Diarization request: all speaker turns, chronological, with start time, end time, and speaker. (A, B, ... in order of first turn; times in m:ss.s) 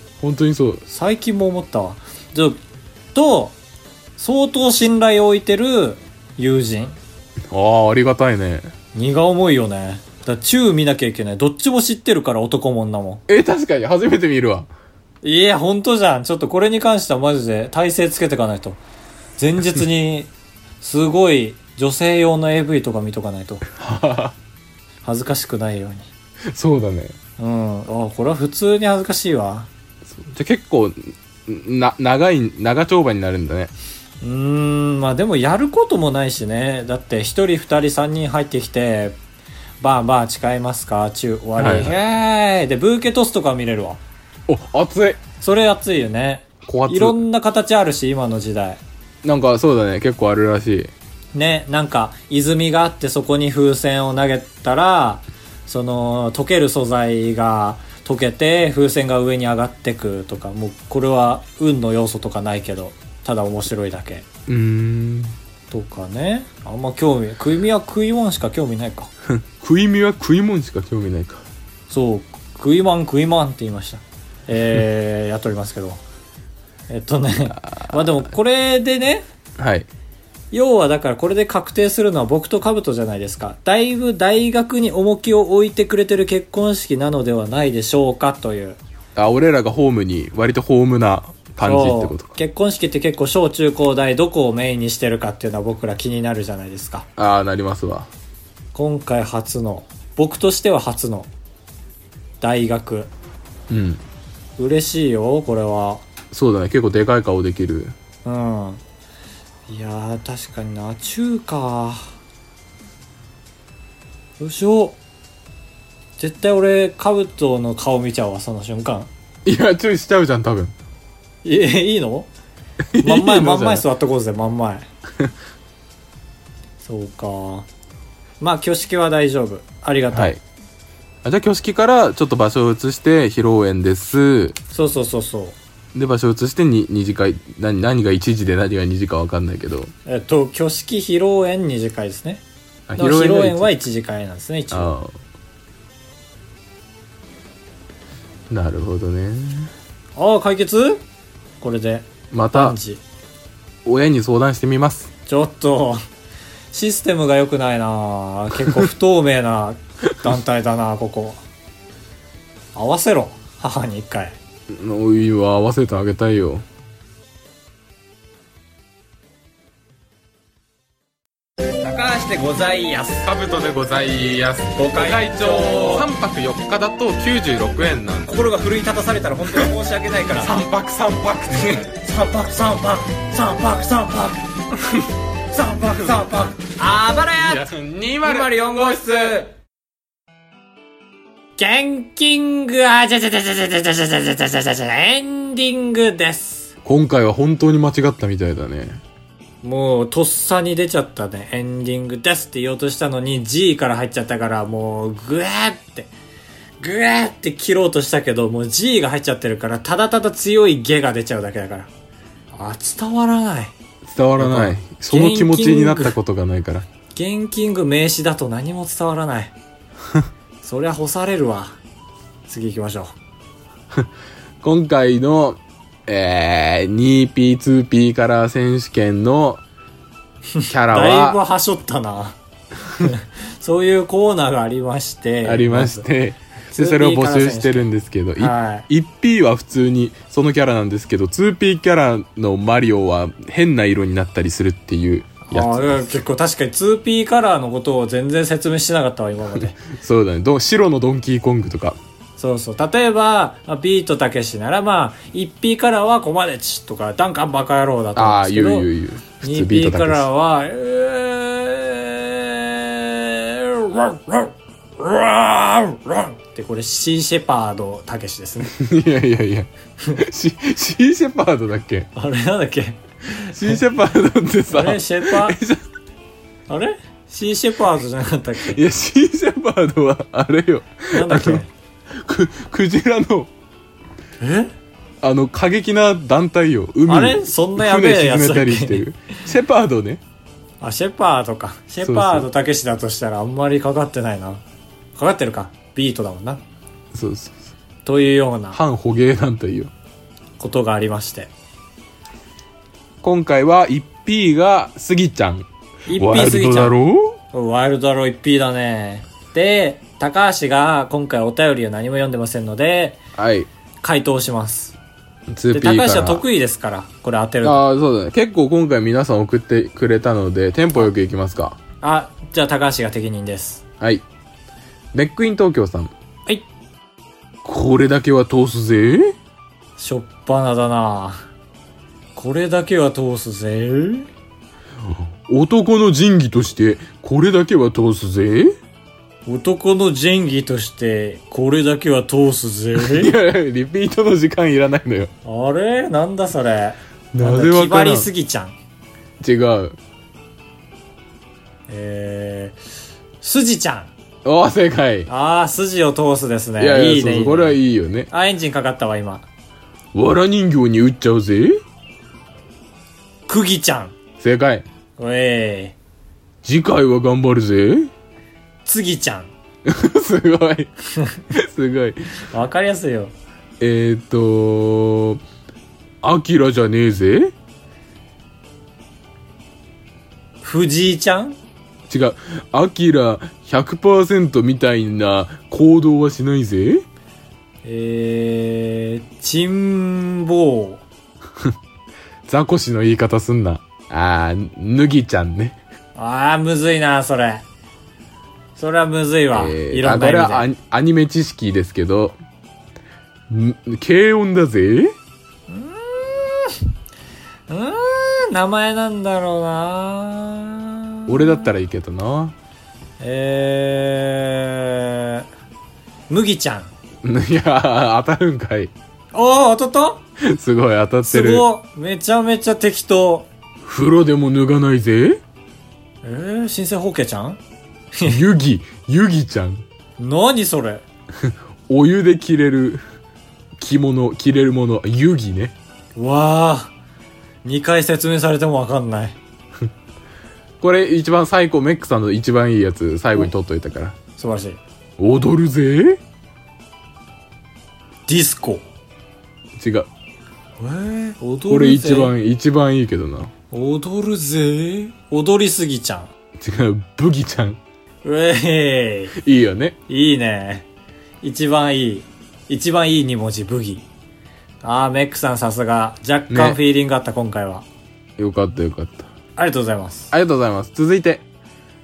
0:00.2-0:00.8 A
0:00.9-0:02.6 B
0:03.1-0:03.6 B
0:04.2-0:07.0 B
0:07.5-0:08.7 A
0:08.9-0:13.2 B
0:13.3-0:14.7 A
0:15.2-0:18.8 B
0:19.4-0:23.6 B
0:23.7-0:24.3 A
0:25.0-0:26.1 B
0:26.5-0:27.1 A
0:27.4-0:29.7 B
0:30.1-0:33.7 A
0:34.2-0:39.2 B
0:39.8-0:44.0 B
0:41.6-0:41.9 A
0:44.5-0:45.2 A
0:45.4-0:48.8 B
0:46.6-0:47.2 A
0:49.2-0:50.9 A
0:51.3-1:04.2 B
1:04.5-1:05.3 A
1:05.7-1:09.1 B
1:09.3-1:11.4 A
1:11.9-1:16.0 B
1:16.9-1:19.2 B
1:17.6-1:18.1 A
1:19.6-1:19.9 A
1:20.5-1:28.8 B
1:29.2-1:32.3 A
1:31.6-1:37.1 B
1:37.2-1:38.1 A
1:38.7-1:41.3 B
1:42.4-1:43.1 B
1:43.7-1:44.0 A
1:44.6-1:46.0 B
1:46.3-1:47.9 A
1:48.2-1:48.8 B
1:49.7-1:52.1 B
1:54.4-1:55.0 B
1:56.2-1:59.1 B
1:59.4-2:00.7 A
2:01.4-2:02.3 B
2:02.9-2:03.8 A
2:03.0-2:04.9 B
2:06.8-2:07.7 B
2:08.4-2:10.3 B
2:10.1-2:10.4 A
2:11.2-2:14.6 A
2:14.7-2:15.6 B
2:15.9-2:19.9 A
2:20.0-2:22.4 B
2:22.9-2:23.7 A
2:23.0-2:24.9 B
2:24.7-2:25.1 A
2:28.5-2:29.7 A
2:30.2-2:31.0 B
2:31.6-2:33.0 B
2:32.3-2:32.8 A
2:33.8-2:35.1 A
2:35.3-2:36.0 B
2:36.7-2:41.4 B
2:42.7-2:44.4 B
2:44.7-2:46.6 A
2:51.8-2:53.3 B
2:53.2-2:58.3 A
2:54.8-2:56.1 B
2:58.2-3:00.6 B
3:00.4-3:01.8 A
3:01.6-3:04.5 B
3:05.5-3:09.5 B
3:07.4-3:09.3 A
3:11.6-3:16.7 B
3:16.8-3:19.0 A
3:19.6-3:26.1 B
3:26.8-3:31.9 B
3:32.5-3:33.7 B
3:34.0-3:36.8 A
3:34.4-3:36.2 B
3:37.1-3:39.5 B
3:40.6-3:41.8 B
3:42.5-3:43.2 B
3:44.6-3:49.6 A
3:50.5-3:52.4 B
3:50.7-3:51.4 A
3:53.0-3:56.0 B
3:55.4-4:06.2 A
3:56.7-3:58.9 B
4:05.4-4:09.8 B
4:09.8-4:12.0 A
4:12.4-4:18.9 B
4:18.2-4:20.3 A
4:19.4-4:28.8 B
4:28.7-4:32.1 A
4:32.1-4:33.8 B
4:33.5-4:35.8 A
4:34.7-4:35.6 B
4:36.7-4:38.8 B
4:38.7-4:43.5 A
4:41.1-4:41.7 B
4:44.4-4:44.7 B
4:45.2-4:50.2 A
4:47.1-4:49.4 B
4:50.8-4:54.6 B
4:52.0-4:52.5 A
4:55.2-4:56.6 B
4:57.1-4:57.6 A
4:58.0-4:58.8 B
4:58.7-4:59.9 A
5:00.6-5:01.5 B
5:03.2-5:07.4 A
5:06.1-5:07.0 B
5:07.5-5:13.2 B
5:13.4-5:13.7 A
5:14.0-5:15.0 B
5:15.5-5:16.4 A
5:15.7-5:17.8 B
5:17.6-5:21.8 A
5:22.0-5:23.8 B
5:25.1-5:26.1 A
5:27.6-5:29.3 A
5:30.0-5:31.4 B
5:32.3-5:34.3 B
5:35.1-5:38.7 A
5:39.4-5:43.3 B
5:42.9-5:45.3 A
5:45.4-5:48.8 B
5:47.3-5:48.3 A
5:49.4-5:50.0 A
5:51.9-5:52.8 B
5:53.4-5:54.1 B
5:54.4-5:55.3 A
5:55.3-5:57.8 B
5:56.8-5:58.3 A
5:58.3-5:59.5 B
6:00.1-6:01.8 A
6:03.5-6:04.1 B
6:04.4-6:04.8 A
6:05.2-6:05.9 B
6:06.6-6:08.1 A
6:08.8-6:09.5 B
6:09.8-6:10.9 A
6:11.1-6:11.5 B
6:11.5-6:12.3 A
6:12.4-6:13.3 B
6:13.8-6:15.4 A
6:16.2-6:17.5 A
6:20.6-6:21.6 B
6:22.1-6:27.0 A
6:27.8-6:31.0 B
6:32.4-6:35.8 A
6:36.1-6:37.6 B
6:38.8-6:40.7 B
6:39.5-6:42.4 A
6:43.5-6:45.1 A
6:45.7-6:46.8 B
6:47.7-6:51.7 B
6:51.3-6:52.5 A
6:53.2-6:55.4 B
6:56.3-6:56.9 B
6:57.2-6:58.9 A
6:59.3-7:00.2 B
7:00.4-7:01.6 A
7:01.2-7:03.5 B
7:03.8-7:05.4 A
7:06.2-7:07.6 B
7:08.2-7:09.8 A
7:10.2-7:11.0 B
7:11.4-7:13.0 A
7:13.8-7:15.7 A
7:16.2-7:16.9 B
7:17.6-7:19.4 B
7:20.8-7:24.2 A
7:24.4-7:24.8 B
7:25.2-7:26.2 A
7:28.3-7:28.8 B
7:29.8-7:30.1 A
7:30.8-7:32.3 B
7:31.7-7:33.5 A
7:33.7-7:36.3 B
7:36.6-7:37.8 A
7:38.2-7:39.4 B
7:39.4-7:40.0 A
7:40.1-7:40.9 B
7:41.4-7:44.0 B
7:44.8-7:47.8 B
7:46.5-7:46.8 A
7:48.4-7:49.3 A
7:49.6-7:50.3 B
7:50.3-7:51.4 A